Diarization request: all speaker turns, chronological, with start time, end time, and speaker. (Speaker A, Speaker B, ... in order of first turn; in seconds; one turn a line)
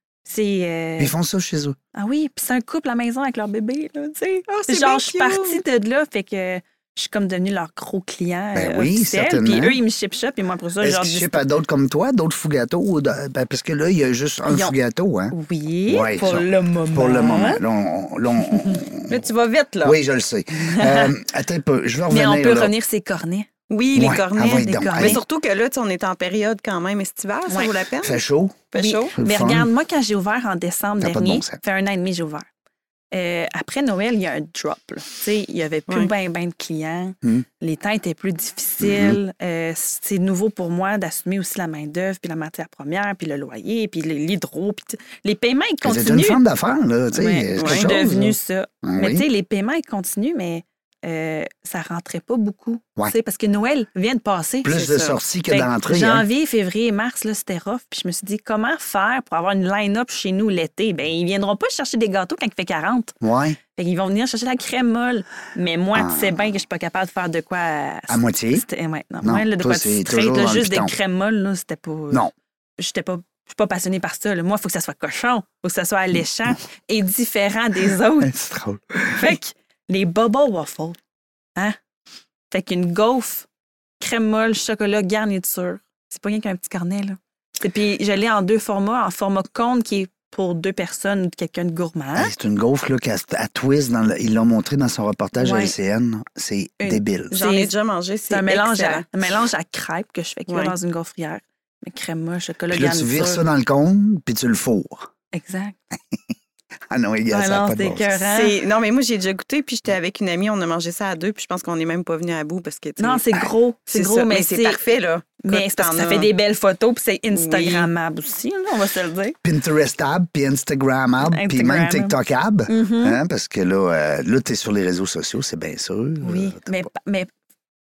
Speaker A: 0.2-1.1
Speaker B: 1.0-1.8
Speaker A: 1.9-11.4
Speaker C: 4.5-5.6
Speaker B: 8.5-9.8
Speaker B: 10.8-15.3
Speaker A: 14.5-14.8
Speaker A: 15.3-17.6
Speaker B: 15.9-19.2
Speaker A: 18.5-18.8
Speaker C: 19.1-20.0
Speaker B: 19.8-22.7
Speaker A: 20.6-21.1
Speaker A: 22.1-23.5
Speaker C: 23.7-29.1
Speaker B: 23.9-25.2
Speaker A: 24.4-25.2
Speaker B: 28.0-29.7
Speaker A: 28.8-32.5
Speaker B: 31.0-31.6
Speaker A: 33.1-46.4
Speaker B: 38.8-39.2
Speaker B: 45.8-49.3
Speaker A: 47.1-54.7
Speaker C: 47.6-47.9
Speaker B: 54.6-56.2
Speaker C: 54.7-55.2
Speaker A: 55.5-63.1
Speaker B: 63.2-63.6
Speaker A: 63.7-72.3
Speaker B: 65.9-66.5
Speaker B: 68.1-68.6
Speaker B: 69.2-70.9
Speaker A: 72.8-78.3
Speaker B: 78.2-79.3
Speaker A: 79.1-81.0
Speaker A: 82.5-83.5
Speaker A: 84.0-92.3
Speaker B: 92.2-97.4
Speaker A: 95.4-95.7
Speaker A: 96.8-97.7
Speaker C: 97.3-99.0
Speaker A: 98.3-103.4
Speaker C: 100.5-100.7
Speaker B: 102.7-105.1
Speaker A: 105.3-105.8
Speaker B: 106.9-108.1
Speaker A: 107.3-108.5
Speaker C: 108.3-113.3
Speaker A: 113.0-114.8
Speaker C: 113.9-116.3
Speaker A: 115.4-119.4
Speaker C: 117.3-117.9
Speaker B: 119.4-126.9
Speaker A: 121.2-122.1
Speaker A: 122.7-123.2
Speaker A: 126.2-127.3